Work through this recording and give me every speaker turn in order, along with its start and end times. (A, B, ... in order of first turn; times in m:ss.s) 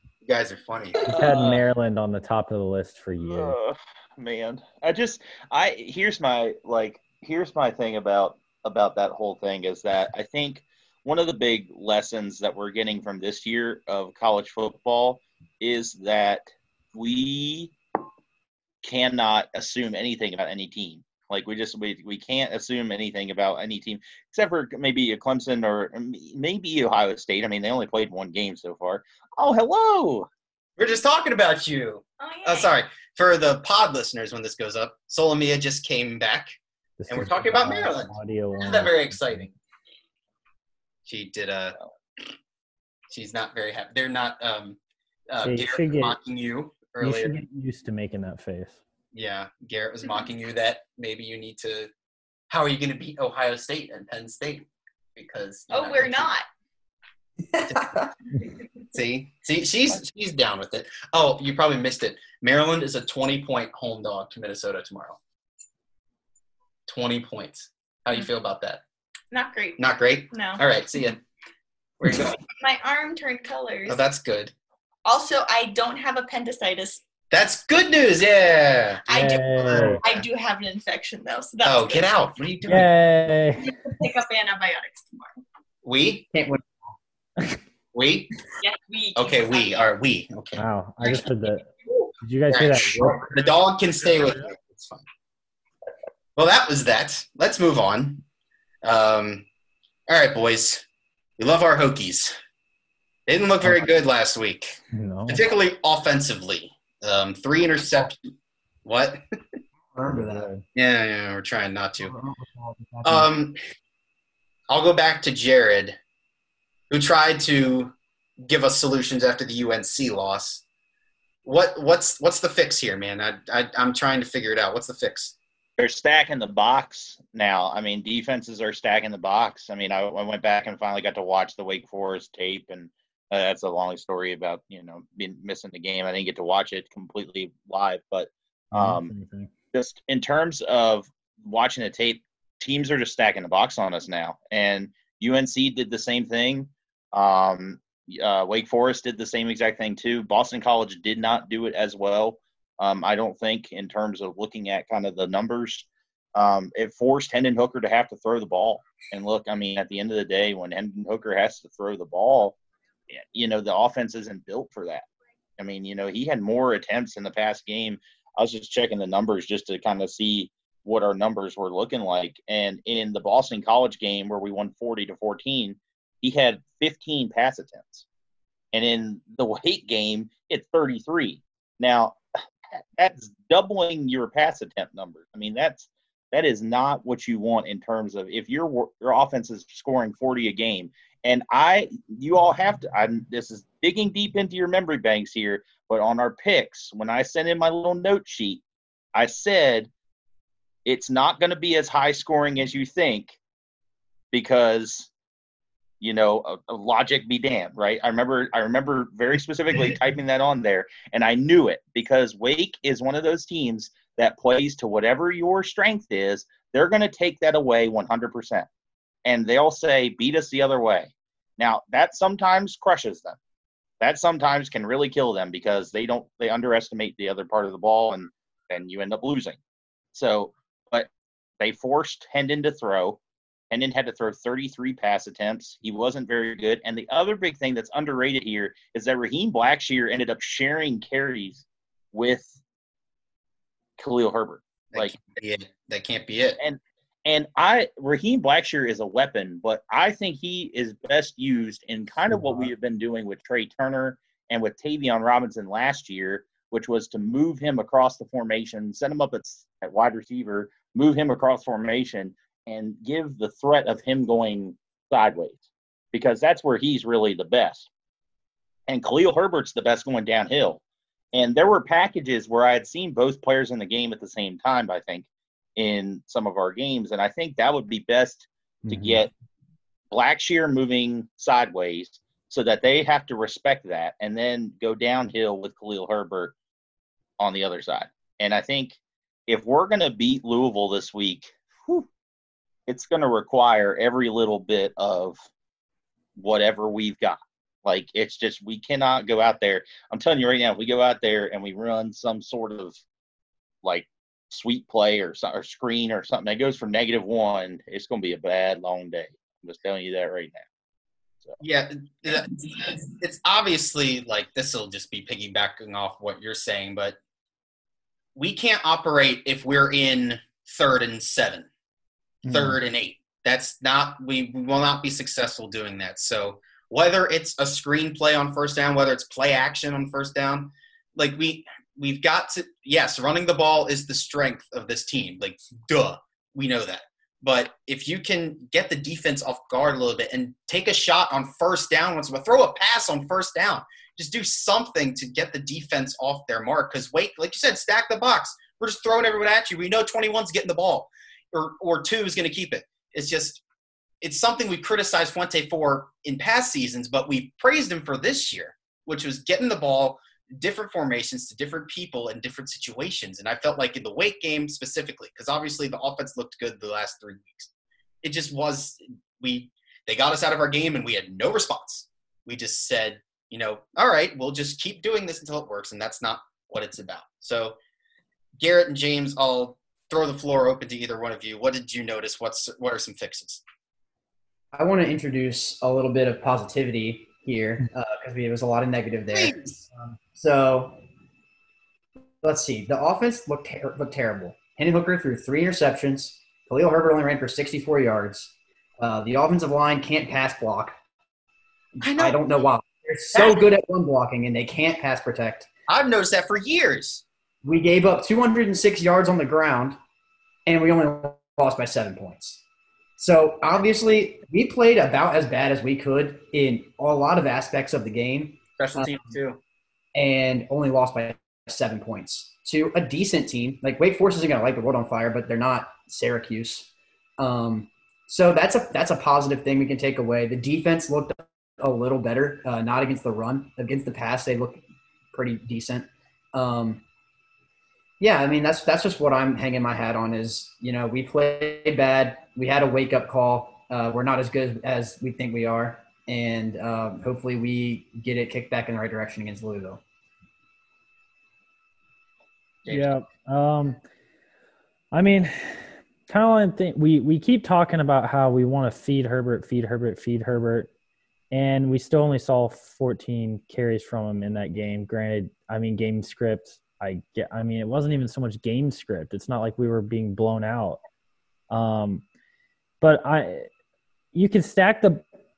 0:00.2-0:01.0 A
0:01.0-0:03.5 B
0:01.1-0:01.6 C
0:03.3-0:17.7 C
0:18.8-0:30.3 C
0:30.8-0:36.6 A
0:32.2-0:32.7 D
0:37.0-0:39.5 B
0:37.1-0:39.5 A
0:41.0-0:41.8 A
0:43.1-0:44.8 A
0:45.3-0:47.4 A
0:45.4-0:46.2 B
0:47.0-0:48.8 B
0:49.1-0:51.9 A
0:52.5-0:56.3 A
0:55.7-0:56.4 D
0:57.5-0:58.1 E
0:58.9-1:05.2 A
1:06.9-1:08.8 A
1:09.3-1:10.6 D
1:09.8-1:11.2 A
1:12.0-1:12.4 A
1:12.4-1:14.0 D
1:13.9-1:14.5 A
1:15.0-1:17.0 D
1:17.3-1:20.2 A
1:19.1-1:22.9 D
1:19.1-1:20.0 B
1:21.6-1:22.9 A
1:22.7-1:23.7 B
1:23.6-1:25.3 D
1:25.8-1:26.2 A
1:26.3-1:26.9 E
1:27.9-1:28.3 A
1:28.6-1:29.9 D
1:29.2-1:31.2 A
1:30.6-1:31.7 B
1:32.2-1:33.2 B
1:32.5-1:35.0 A
1:36.4-1:38.2 A
1:38.8-1:39.4 A
1:40.1-1:40.8 A
1:41.4-1:42.3 A
1:43.3-1:48.2 A
1:43.6-1:43.9 B
1:44.9-1:45.4 B
1:48.8-1:49.2 A
1:49.9-1:50.5 E
1:50.1-1:50.6 B
1:50.7-1:52.1 A
1:52.0-1:53.3 E
1:53.0-1:53.6 A
1:54.7-1:56.0 A
1:56.9-2:00.6 A
2:01.4-2:05.4 A
2:05.8-2:19.1 C
2:18.7-2:19.5 B
2:19.7-2:42.6 C
2:43.1-2:45.1 C
2:45.6-2:58.0 C
2:58.7-3:02.2 C
3:02.8-3:18.6 C
3:19.1-3:19.9 C
3:20.8-3:23.4 C
3:24.3-3:25.1 C
3:26.0-3:38.7 C
3:39.2-3:43.4 C
3:44.0-3:49.6 C
3:50.1-3:53.2 C
3:53.7-4:02.5 C
4:04.0-4:05.2 C
4:04.9-4:06.6 A
4:06.6-4:25.6 C
4:12.3-4:12.7 B
4:26.1-4:27.9 C
4:28.9-4:30.8 C
4:31.3-4:39.3 C
4:38.8-4:39.2 B
4:40.1-4:46.5 C
4:47.4-4:52.1 C
4:52.9-4:55.4 C
4:56.4-5:03.0 C
5:03.8-5:10.6 C
5:11.6-5:17.2 A
5:18.3-5:21.7 A
5:22.4-5:22.8 B
5:22.4-5:53.6 A
5:54.2-6:07.7 A
6:08.2-6:17.8 A
6:18.6-6:23.6 A
6:24.7-6:31.0 E
6:29.3-6:29.8 A
6:32.4-6:41.0 E
6:42.0-6:42.4 A
6:42.0-6:45.7 E
6:43.3-6:43.6 A
6:45.9-6:47.2 A
6:47.6-6:50.0 E
6:50.6-6:52.6 E
6:53.2-6:59.3 E
6:58.8-6:59.6 A
7:00.1-7:17.0 E
7:18.2-7:30.0 E
7:32.8-7:33.1 A
7:32.9-7:34.0 B
7:35.1-7:40.9 B
7:41.5-7:51.0 B
7:51.7-7:52.2 B
7:53.0-7:53.7 B
7:54.3-7:55.2 B